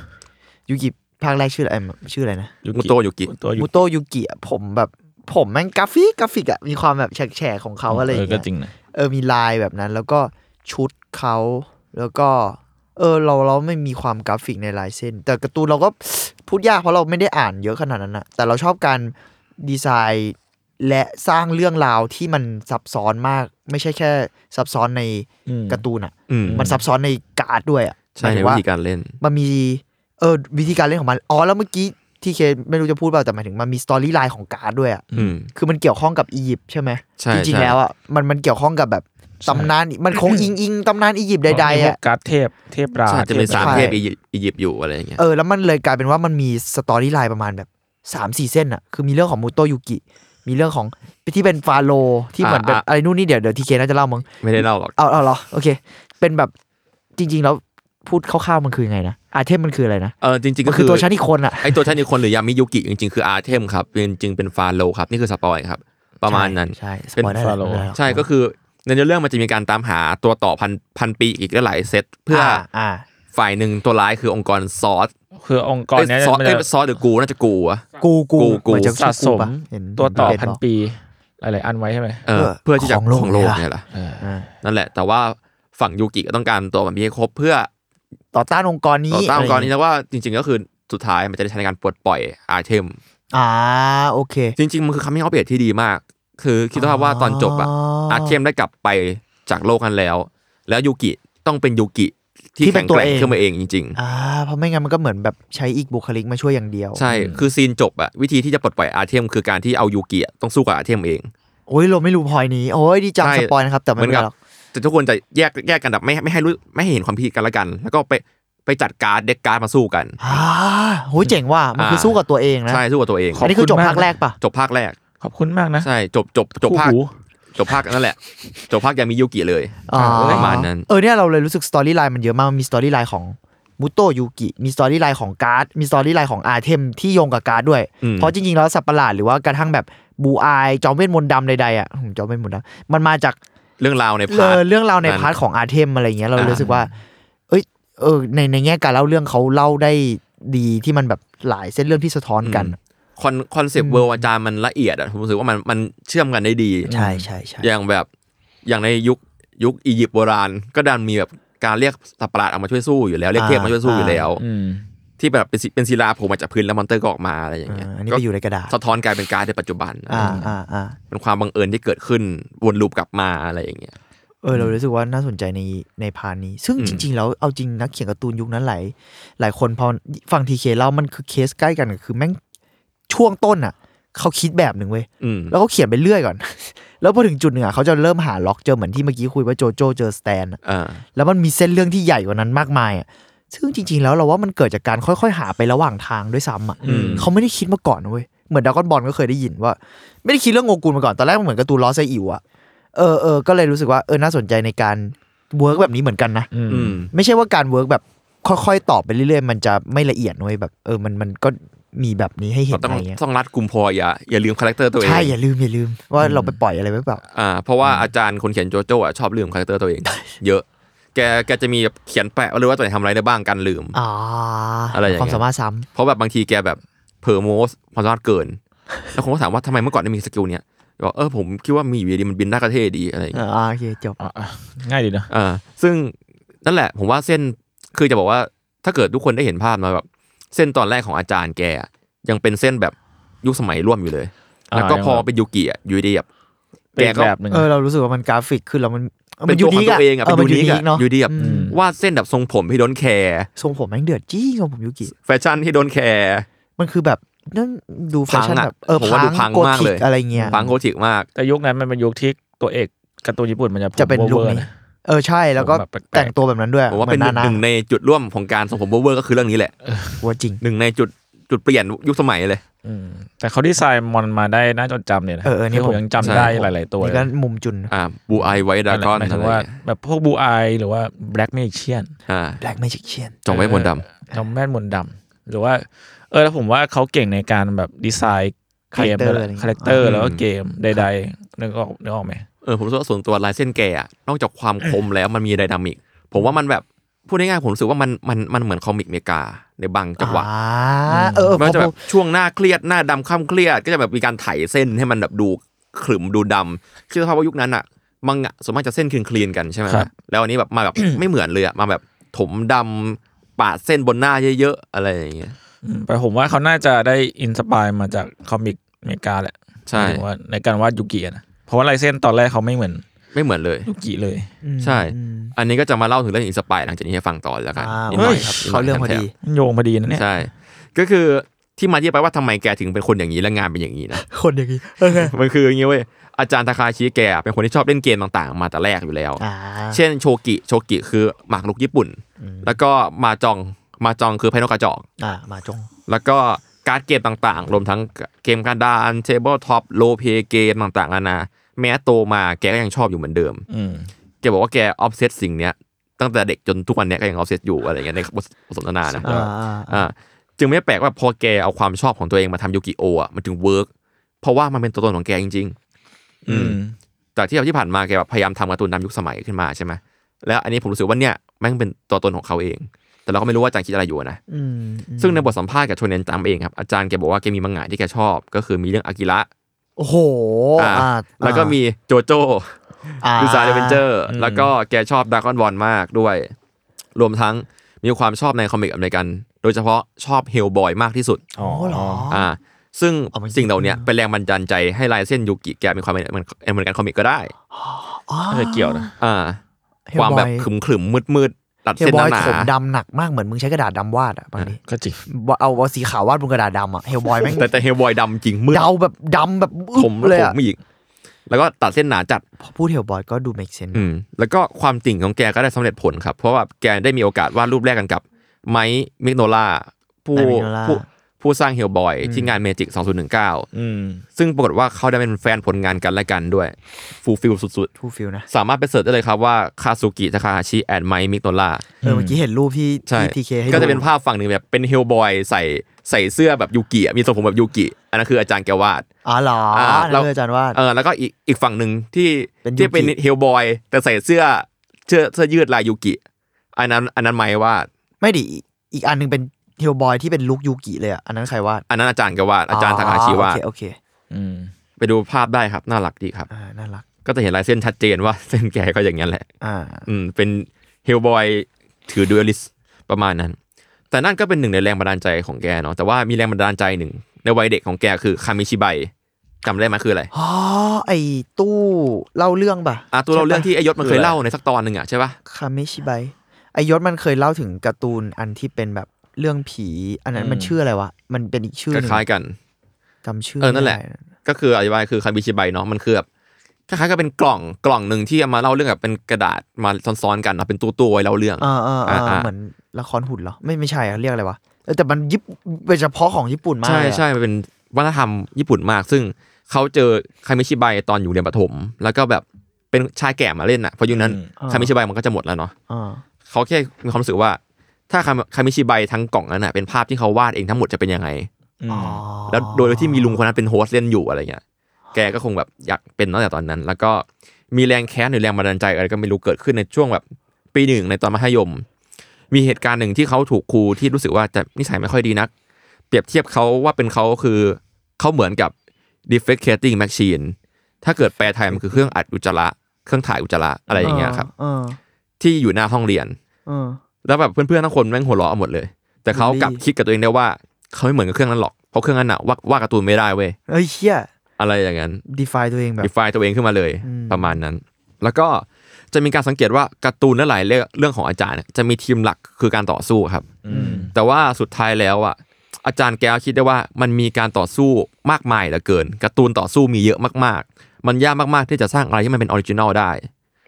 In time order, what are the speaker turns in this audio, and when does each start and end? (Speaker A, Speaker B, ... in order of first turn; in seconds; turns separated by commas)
Speaker A: 0.7-2.5, Speaker B: 2.6-3.7, Speaker C: 2.7-3.3, Speaker A: 3.6-28.6, Speaker B: 7.9-8.7, Speaker B: 25.4-25.8, Speaker C: 26.3-26.7, Speaker B: 26.4-26.8, Speaker C: 28.1-29.1, Speaker A: 29.2-42.0, Speaker C: 35.1-35.5, Speaker C: 37.2-37.8, Speaker B: 39.5-40.4, Speaker B: 41.5-44.0, Speaker C: 43.1-45.2, Speaker A: 43.5-44.0, Speaker A: 45.2-54.3, Speaker C: 52.4-52.8, Speaker C: 54.4-55.0, Speaker A: 55.0-56.5, Speaker A: 57.2-61.8, Speaker C: 60.2-61.1, Speaker C: 61.6-67.3, Speaker A: 66.2-68.2, Speaker B: 67.3-67.9, Speaker C: 67.9-72.6, Speaker A: 72.3-73.0, Speaker C: 73.3-75.1, Speaker B: 75.3-76.7, Speaker C: 75.9-77.8, Speaker A: 78.0-80.6, Speaker C: 78.4-79.0, Speaker B: 78.8-82.2, Speaker C: 82.2-83.8, Speaker A: 82.3-83.6, Speaker B: 83.9-84.2, Speaker A: 84.2-84.5, Speaker C: 84.6-87.7, Speaker A: 88.3-89.7, Speaker C: 89.1-93.0, Speaker A: 93.3-94.5, Speaker C: 94.6-104.0, Speaker A: 96.7-98.3, Speaker A: 102.6-103.4, Speaker A: 103.9-107.0, Speaker C: 106.9-111.3, Speaker B: 107.1-107.5, Speaker A: 111.7-114.3, Speaker C: 113.2-120.3, Speaker A: 120.2-122.8, Speaker C: 121.8-123.5, Speaker B: 123.3-124.1, Speaker A: 123.4-124.4, Speaker C: 124.4-125.0, Speaker B: 125.2-125.9, Speaker C: 125.8-127.0, Speaker B: 126.6-127.1, Speaker C: 127.5-130.9, Speaker A: 129.9-143.4, Speaker B: 129.9-130.5, Speaker C: 138.0-138.3, Speaker C: 143.8-145.3, Speaker A: 144.3-146.9, Speaker C: 146.3-146.7, Speaker A: 147.5-152.8, Speaker C: 152.4-156.9, Speaker A: 153.8-154.2, Speaker B: 156.8-157.3, Speaker A: 156.9-157.7, Speaker C: 157.6-158.1, Speaker C: 158.6-164.4, Speaker A: 163.3-164.2, Speaker B: 164.4-164.9, Speaker C: 165.2-170.4, Speaker A: 167.7-168.7, Speaker A: 170.1-171.0, Speaker B: 170.2-170.5, Speaker C: 171.1-173.9, Speaker A: 174.4-182.4, Speaker C: 176.8-177.1, Speaker A: 183.1-190.6, Speaker C: 185.2-185.5, Speaker C: 190.6-191.0, Speaker A: 191.1-202.4, Speaker B: 196.8-197.3, Speaker C: 196.8-197.3, Speaker A: 202.9-206.5, Speaker B: 206.5-207.0, Speaker C: 206.7-207.1, Speaker A: 207.1-213.2, Speaker C: 212.7-215.3, Speaker A: 215.0-217.2, Speaker B: 216.2-216.5, Speaker C: 217.3-220.6, Speaker C: 221.1-223.9, Speaker A: 223.9-225.8, Speaker C: 224.9-225.4, Speaker C: 225.9-228.6, Speaker C: 229.1-233.4, Speaker A: 233.3-234.2, Speaker B: 234.2-235.3, Speaker C: 235.3-246.2, Speaker B: 244.7-245.2, Speaker B: 246.9-247.7, Speaker C: 247.0-247.3, Speaker A: 247.5-251.7, Speaker C: 249.5-253.5, Speaker B: 251.4-251.8, Speaker A: 253.6-255.1, Speaker C: 255.2-256.4, Speaker A: 256.8-260.7, Speaker C: 258.3-261.3, Speaker B: 261.3-264.7, Speaker A: 264.0-267.6, Speaker B: 265.6-266.3, Speaker C: 266.9-269.7, Speaker B: 269.8-270.2, Speaker A: 270.2-270.6, Speaker C: 270.6-272.6, Speaker B: 272.8-277.3, Speaker A: 275.4-277.9, Speaker C: 276.2-276.6, Speaker C: 277.9-279.8, Speaker B: 278.9-282.1, Speaker C: 282.3-282.6, Speaker A: 282.6-283.4, Speaker C: 283.4-284.0, Speaker B: 283.5-292.4, Speaker A: 288.9-290.1, Speaker C: 290.0-290.4, Speaker C: 292.6-300.5, Speaker A: 300.2-302.0, Speaker B: 301.1-301.6, Speaker C: 301.6-315.6, Speaker B: 315.8-323.0, Speaker C: 319.9-320.2, Speaker C: 323.3-323.9, Speaker B: 323.8-324.5, Speaker A: 324.6-325.5, Speaker C: 324.8-329.2, Speaker A: 327.8-329.3, Speaker B: 328.1-328.6, Speaker B: 329.4-330.2, Speaker C: 330.1-334.2, Speaker A: 334.1-335.3, Speaker C: 335.1-345.1, Speaker A: 339.4-340.0, Speaker A: 342.4-342.8, Speaker A: 345.2-345.9, Speaker C: 346.1-353.6, Speaker B: 353.7-354.1, Speaker C: 354.4-359.4, Speaker B: 359.1-359.5, Speaker A: 359.2-360.1, Speaker C: 359.9-363.9, Speaker C: 364.4-365.8, Speaker B: 366.4-366.9, Speaker C: 366.5-366.8, Speaker C: 367.4-374.4, Speaker A: 374.5-375.5, Speaker C: 375.2-379.5, Speaker A: 380.0-381.8, Speaker C: 380.8-386.5, Speaker A: 383.2-384.0, Speaker B: 384.3-384.7, Speaker C: 387.1-391.4, Speaker B: 391.6-392.3, Speaker A: 391.6-392.5, Speaker C: 392.3-397.5, Speaker A: 393.3-394.1, Speaker A: 397.7-399.1, Speaker B: 398.5-399.1, Speaker C: 399.2-399.6, Speaker A: 400.1-400.7, Speaker C: 400.1-402.7, Speaker A: 402.0-407.7, Speaker B: 404.8-405.2, Speaker C: 407.4-408.9, Speaker A: 408.7-410.6, Speaker C: 409.9-410.8, Speaker C: 411.5-412.4, Speaker A: 412.6-414.1, Speaker C: 413.9-423.7, Speaker A: 420.3-421.0, Speaker A: 422.2-422.6, Speaker B: 423.7-424.2, Speaker C: 424.4-427.9, Speaker A: 428.0-428.5, Speaker C: 428.5-431.9, Speaker B: 432.0-432.4, Speaker A: 432.0-434.0, Speaker C: 433.1-439.1, Speaker A: 439.2-440.8, Speaker C: 439.7-446.2, Speaker A: 442.6-443.1, Speaker C: 446.7-447.9, Speaker A: 448.2-451.8, Speaker C: 451.9-453.6, Speaker A: 452.7-454.0, Speaker B: 454.3-454.7, Speaker C: 455.0-456.5, Speaker A: 456.5-457.0, Speaker C: 457.2-459.5, Speaker A: 459.6-460.1, Speaker C: 460.1-463.6, Speaker C: 464.1-469.1, Speaker C: 469.6-470.3, Speaker A: 470.3-473.7, Speaker C: 473.1-475.4, Speaker B: 474.0-474.4, Speaker A: 475.4-482.2, Speaker B: 480.4-480.8, Speaker C: 481.9-482.6, Speaker A: 483.2-484.2, Speaker C: 483.6-486.2, Speaker C: 486.9-492.5, Speaker A: 491.6-497.2, Speaker C: 496.8-505.7, Speaker B: 504.1-504.5, Speaker A: 504.6-504.9, Speaker A: 505.9-506.2, Speaker C: 506.5-507.6, Speaker C: 508.1-511.5, Speaker B: 511.8-512.2, Speaker A: 511.9-513.4, Speaker C: 512.5-514.6, Speaker C: 515.1-520.2, Speaker C: 520.7-521.8, Speaker C: 522.5-525.5, Speaker C: 526.1-528.7, Speaker C: 529.3-534.5, Speaker A: 531.8-532.0, Speaker B: 533.9-534.3, Speaker A: 534.0-535.0, Speaker C: 535.4-536.4, Speaker A: 536.7-537.0, Speaker C: 537.2-543.6, Speaker A: 539.3-539.8, Speaker A: 543.7-544.3, Speaker C: 544.6-545.2, Speaker A: 545.3-546.1, Speaker C: 546.0-553.5, Speaker A: 547.0-547.6, Speaker B: 553.6-554.1, Speaker A: 553.7-554.1, Speaker C: 554.1-563.3